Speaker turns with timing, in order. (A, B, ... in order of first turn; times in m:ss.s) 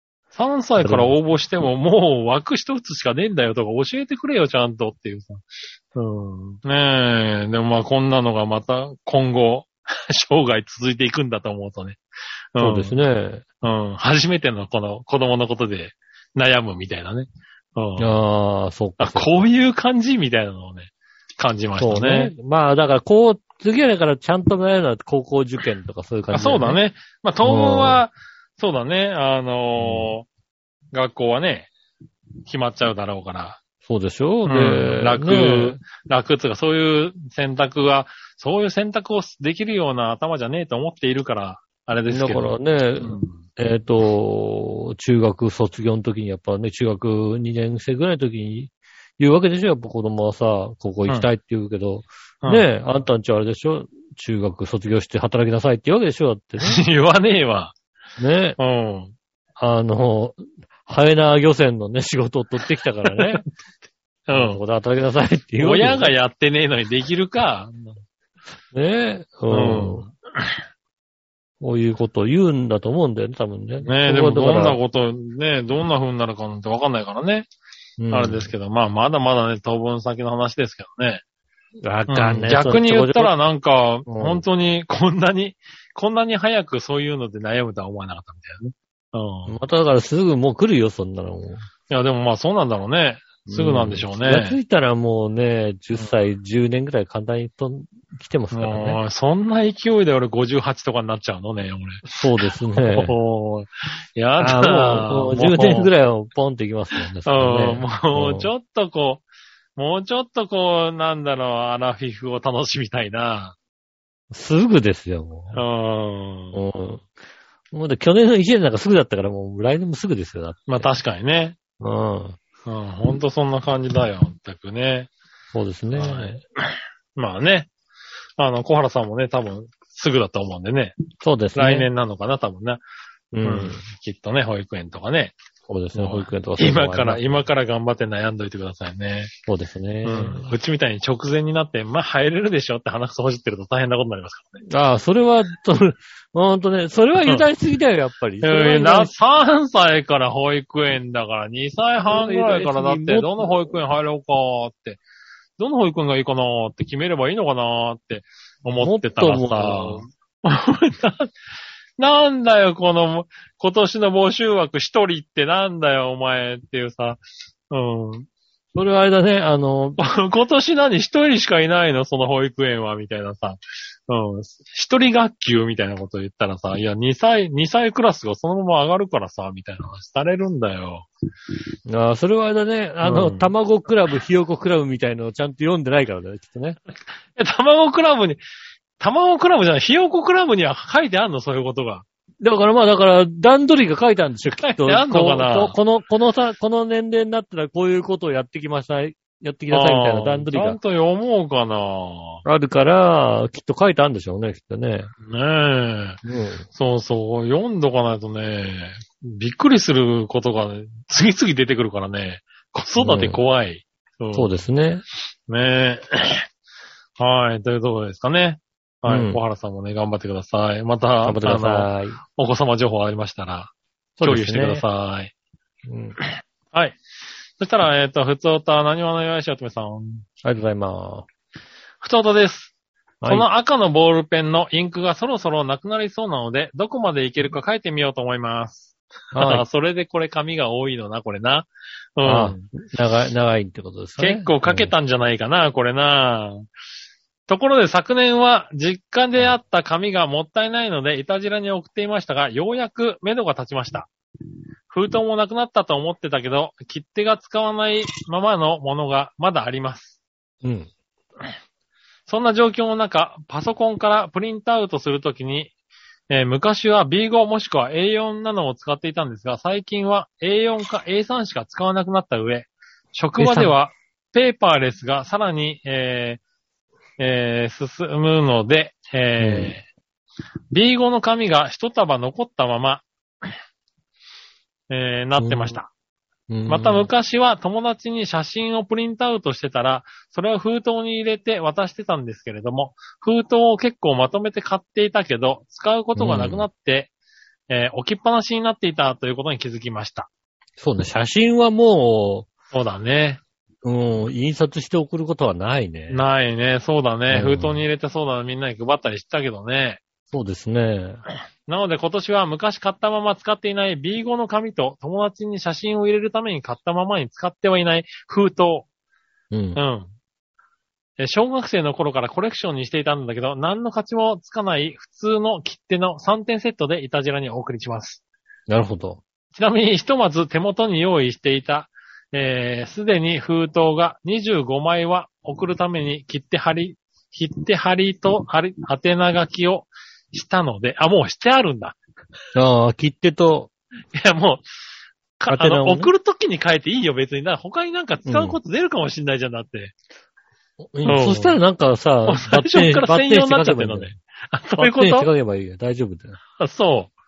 0:00.3-0:12.0 A
0:00.8-0:01.1 B
0:12.6-0:13.0 A
0:12.6-0:13.4 B
0:13.6-0:18.1 A
0:18.0-0:19.4 B
0:19.0-0:22.3 A
0:21.8-0:26.8 B
0:26.3-0:30.3 A
0:27.4-0:28.0 B
0:29.8-0:30.1 B
0:30.9-0:31.7 A
0:32.5-0:33.6 A
0:33.8-0:35.8 B
0:34.4-0:43.4 A
0:42.1-0:56.8 B
0:56.6-0:57.7 A
0:58.2-0:58.6 B
0:58.6-0:59.2 A
0:59.6-1:03.5 B
1:04.3-1:04.6 A
1:04.3-1:06.1 B
1:05.6-1:08.0 A
1:08.7-1:10.1 B
1:09.5-1:10.5 A
1:11.6-1:14.8 B
1:13.8-1:17.5 A
1:18.0-1:18.5 B
1:18.1-1:21.2 A
1:21.8-1:23.3 B
1:22.1-1:29.6 A
1:24.1-1:24.4 B
1:29.5-1:31.7 B
1:31.9-1:34.6 A
1:33.5-1:39.0 B
1:38.5-1:42.1 A
1:42.1-1:43.1 B
1:42.8-1:45.9 A
1:44.4-1:48.5 B
1:47.3-1:49.2 A
1:49.8-1:53.6 A
1:54.3-1:55.6 B
1:55.5-1:56.6 A
1:56.5-1:57.0 B
1:57.7-2:00.9 B
2:00.7-2:01.6 A
2:01.8-2:02.4 B
2:02.7-2:05.1 A
2:05.5-2:06.4 B
2:06.0-2:06.4 A
2:07.2-2:07.7 A
2:08.4-2:11.0 A
2:11.2-2:11.9 B
2:11.6-2:12.8 A
2:13.3-2:13.8 B
2:13.4-2:15.4 A
2:15.7-2:17.4 B
2:15.9-2:19.3 A
2:19.5-2:20.5 B
2:20.0-2:24.6 A
2:24.7-2:29.1 B
2:28.4-2:35.0 A
2:32.1-2:33.5 B
2:35.6-2:41.3 A
2:38.8-2:40.1 B
2:42.0-2:48.3 A
2:48.8-2:50.0 B
2:50.0-3:01.1 A
3:01.9-3:06.8 B
3:03.0-3:03.5 A
3:07.4-3:08.4 A
3:09.0-3:12.0 A
3:12.4-3:20.8 B
3:14.6-3:15.8 A
3:19.7-3:22.4 A
3:22.4-3:25.1 B
3:25.3-3:26.2 A
3:26.2-3:26.7 B
3:26.7-3:34.5 A
3:33.0-3:33.4 B
3:34.3-3:35.0 B
3:35.5-3:36.4 A
3:37.2-3:45.3 A
3:39.1-3:39.4 B
3:41.2-3:42.2 B
3:44.2-3:44.8 B
3:45.9-3:46.2 B
3:46.7-3:47.0 A
3:47.6-3:50.3 A
3:50.4-3:51.3 B
3:52.0-3:52.7 A
3:53.2-3:53.5 B
3:53.2-4:02.6 A
3:59.3-3:59.6 B
4:02.2-4:04.9 B
4:04.2-4:06.7 A
4:07.5-4:14.1 A
4:14.9-4:20.2 A
4:20.6-4:20.9 B
4:22.3-4:25.7 A
4:26.3-4:36.4 A
4:33.4-4:33.7 B
4:37.2-4:39.8 A
4:39.4-4:39.8 B
4:40.7-4:43.1 A
4:44.9-4:45.9 A
4:45.4-4:45.8 B
4:46.5-4:47.1 B
4:46.7-4:57.1 A
4:56.2-4:56.7 B
4:57.7-5:00.3 A
5:00.8-5:02.5 B
5:02.7-5:03.4 A
5:03.8-5:06.2 B
5:06.1-5:10.0 A
5:07.3-5:07.8 B
5:10.3-5:11.2 B
5:11.7-5:18.9 A
5:19.5-5:19.8 B
5:19.8-5:20.1 A
5:21.2-5:28.2 A
5:28.7-5:29.2 B
5:29.5-5:42.0 A
5:42.6-5:43.7 B
5:44.1-5:44.6 A
5:45.4-5:49.9 A
5:45.5-5:46.1 B
5:48.3-5:48.6 B
5:50.9-5:54.2 B
5:51.0-5:51.6 A
5:52.3-5:55.3 A
5:54.8-5:56.4 B
5:56.6-5:57.2 A